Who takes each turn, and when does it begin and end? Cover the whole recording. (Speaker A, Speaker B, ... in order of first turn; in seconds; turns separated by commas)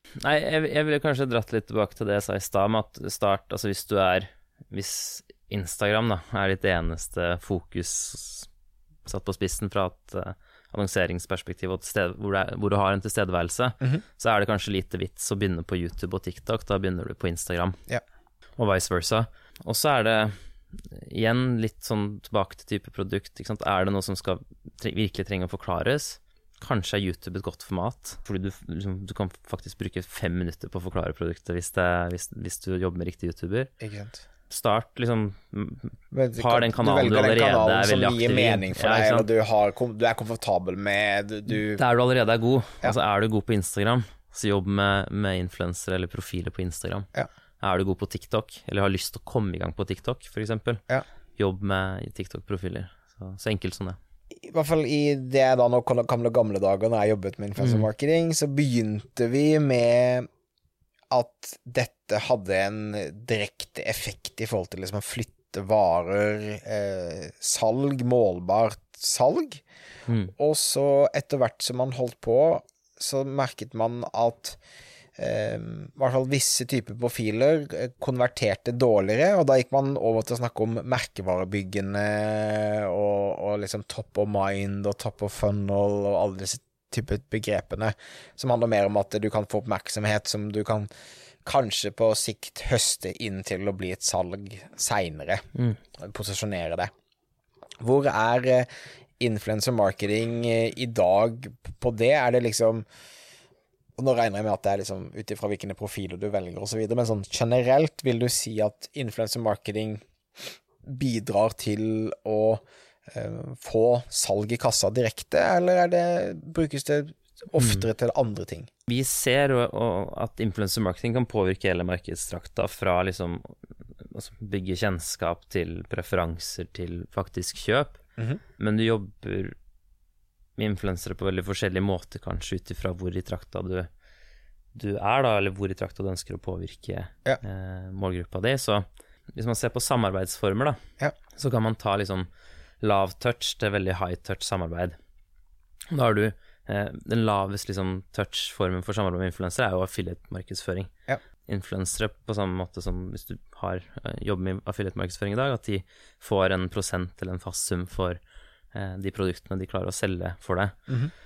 Speaker A: 0.2-8.5, Speaker A: 9.0-17.8, Speaker A: 18.6-20.4, Speaker A: 20.9-33.7, Speaker B: 33.8-34.2, Speaker A: 34.5-39.3, Speaker B: 36.1-41.8, Speaker A: 41.5-47.1, Speaker A: 47.6-50.8, Speaker A: 51.4-54.0, Speaker B: 54.4-60.3, Speaker A: 57.6-57.9, Speaker B: 61.1-69.6, Speaker A: 70.1-70.3, Speaker B: 70.3-74.6, Speaker B: 75.2-90.9, Speaker B: 91.4-95.4, Speaker B: 96.0-96.9, Speaker B: 97.8-98.7, Speaker B: 99.2-102.8, Speaker B: 104.0-118.7, Speaker A: 117.6-117.8, Speaker A: 118.9-128.0, Speaker A: 128.6-129.6, Speaker A: 130.6-133.9, Speaker A: 134.7-140.8, Speaker A: 141.3-142.3, Speaker A: 142.8-145.0, Speaker A: 145.9-150.9, Speaker A: 151.4-158.2, Speaker A: 158.7-160.8